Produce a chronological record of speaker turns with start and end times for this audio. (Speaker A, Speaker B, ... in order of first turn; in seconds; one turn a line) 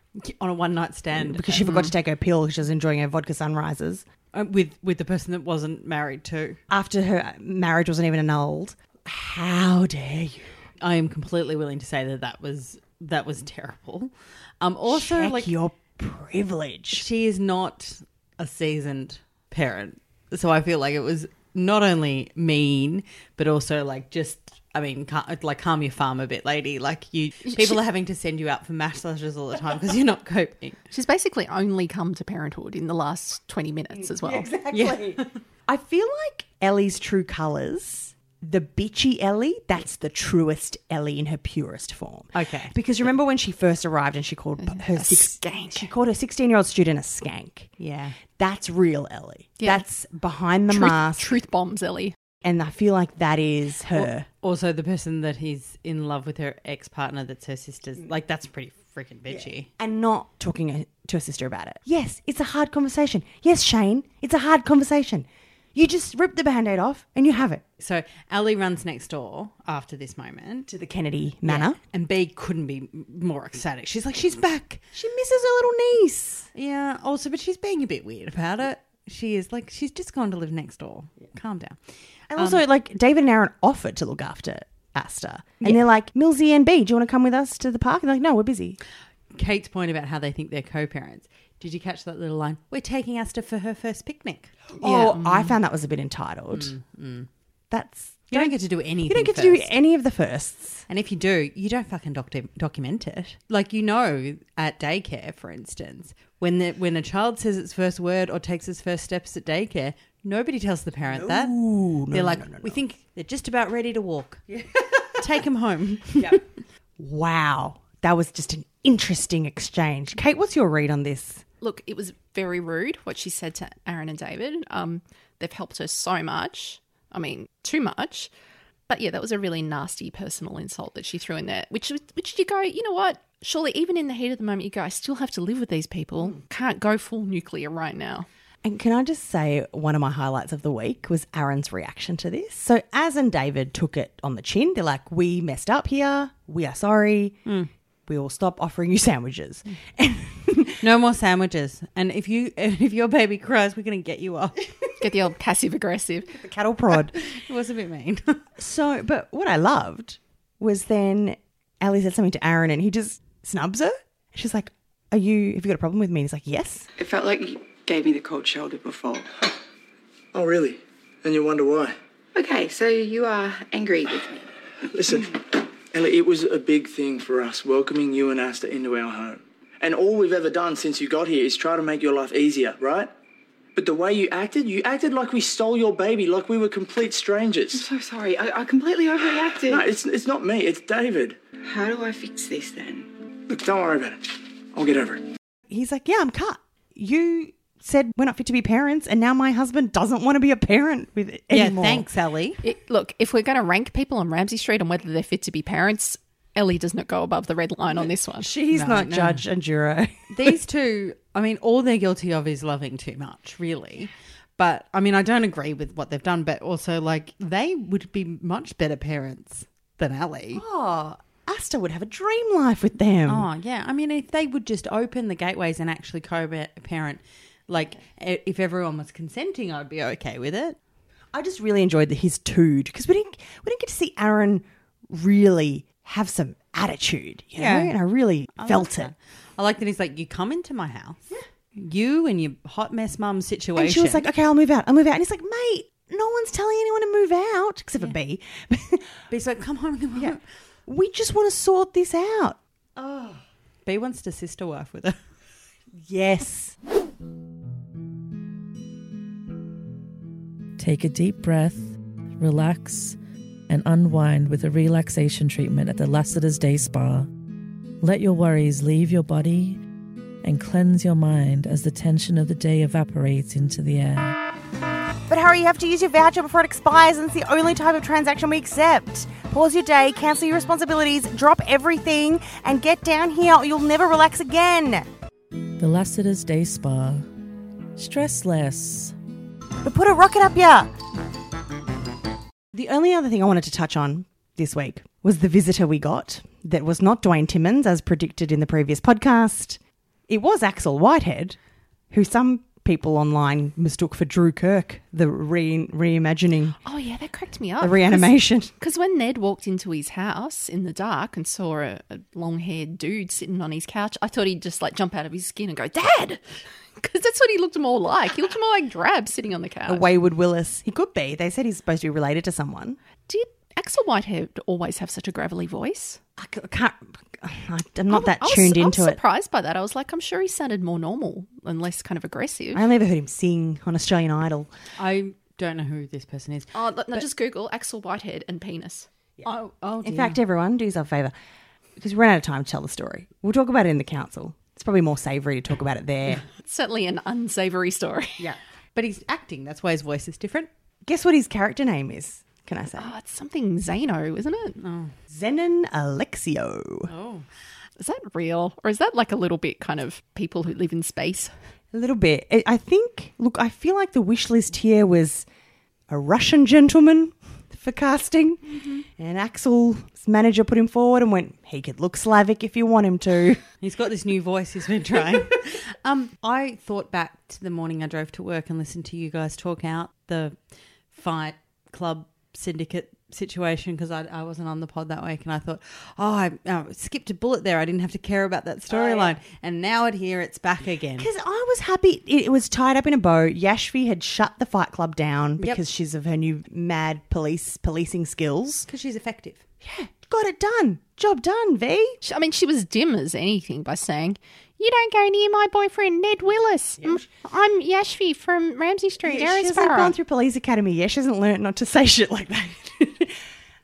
Speaker A: 0.1-1.8
Speaker B: 1.1-4.0
Speaker A: 4.3-6.6
Speaker B: 6.7-10.6
Speaker A: 10.8-15.5
Speaker B: 14.9-17.0
Speaker A: 16.9-30.9
Speaker C: 27.4-27.8
Speaker C: 30.9-34.5
Speaker B: 33.9-47.7
Speaker A: 34.7-35.3
Speaker A: 42.3-42.7
Speaker C: 44.6-45.9
Speaker A: 47.8-48.2
Speaker B: 48.3-51.4
Speaker C: 50.7-52.1
Speaker B: 52.4-54.3
Speaker A: 54.4-59.7
Speaker B: 59.3-67.6
Speaker A: 67.8-70.7
Speaker B: 70.7-71.8
Speaker A: 71.4-74.8
Speaker B: 74.9-76.5
Speaker A: 76.5-81.8
Speaker B: 82.3-88.8
Speaker A: 82.3-82.6
Speaker A: 89.3-95.1
Speaker B: 94.8-96.8
Speaker A: 96.5-97.3
Speaker B: 97.7-100.8
Speaker A: 98.3-99.7
Speaker A: 100.9-111.6
Speaker B: 111.1-112.8
Speaker A: 112.1-114.4
Speaker B: 114.6-115.0
Speaker A: 115.1-116.4
Speaker B: 116.2-116.4
Speaker B: 117.0-121.4
Speaker C: 121.6-128.3
Speaker C: 128.9-138.3
Speaker B: 138.6-147.4
Speaker B: 148.1-150.8
Speaker A: 150.8-154.6
Speaker C: 155.0-156.3
Speaker B: 156.3-157.2
Speaker A: 157.1-158.4
Speaker B: 158.6-166.9
Speaker D: 166.9-169.5
Speaker E: 170.3-171.9
Speaker D: 172.3-174.4
Speaker E: 174.9-175.4
Speaker E: 175.9-183.1
Speaker E: 183.8-187.8
Speaker D: 187.7-189.9
Speaker E: 189.7-191.4
Speaker D: 191.6-193.1
Speaker E: 193.5-195.2
Speaker B: 195.7-202.1
Speaker A: 201.5-202.6
Speaker C: 202.6-208.5
Speaker B: 207.9-210.5
Speaker A: 208.7-209.4
Speaker A: 210.3-220.6
Speaker B: 220.5-223.5
Speaker A: 223.3-230.8
Speaker B: 231.3-239.1
Speaker A: 237.6-237.9
Speaker A: 238.5-244.2
Speaker B: 243.8-249.1
Speaker A: 249.3-250.4
Speaker B: 250.2-253.4
Speaker A: 253.8-255.2
Speaker B: 256.1-256.8
Speaker F: 260.8-263.1
Speaker F: 263.7-267.3
Speaker F: 268.0-269.8
Speaker F: 270.4-274.4
Speaker B: 275.3-285.1
Speaker F: 285.8-287.2
Speaker F: 287.9-289.1
Speaker B: 289.8-290.9
Speaker B: 292.7-301.6
Speaker B: 302.1-306.8
Speaker C: 306.8-316.4
Speaker B: 307.8-308.7
Speaker C: 317.0-320.1
Speaker B: 319.9-323.0
Speaker C: 323.3-326.2
Speaker B: 326.4-329.2
Speaker C: 328.1-332.9
Speaker B: 332.7-334.7
Speaker A: 335.0-337.2
Speaker C: 336.7-339.1
Speaker A: 339.4-340.4
Speaker B: 340.0-341.3
Speaker B: 342.0-346.4
Speaker C: 346.6-348.5
Speaker A: 348.4-350.7
Speaker B: 351.0-353.1
Speaker C: 353.0-354.8
Speaker A: 354.8-355.1
Speaker B: 355.3-357.1
Speaker A: 357.1-357.4
Speaker C: 358.0-361.5
Speaker B: 361.9-365.4
Speaker B: 366.1-368.6
Speaker B: 369.2-373.6
Speaker A: 373.8-380.6
Speaker A: 381.1-391.3
Speaker B: 388.9-389.4
Speaker B: 391.2-398.9
Speaker A: 398.9-399.6
Speaker B: 399.8-402.2
Speaker C: 402.2-410.1
Speaker B: 407.0-407.3
Speaker B: 409.2-413.4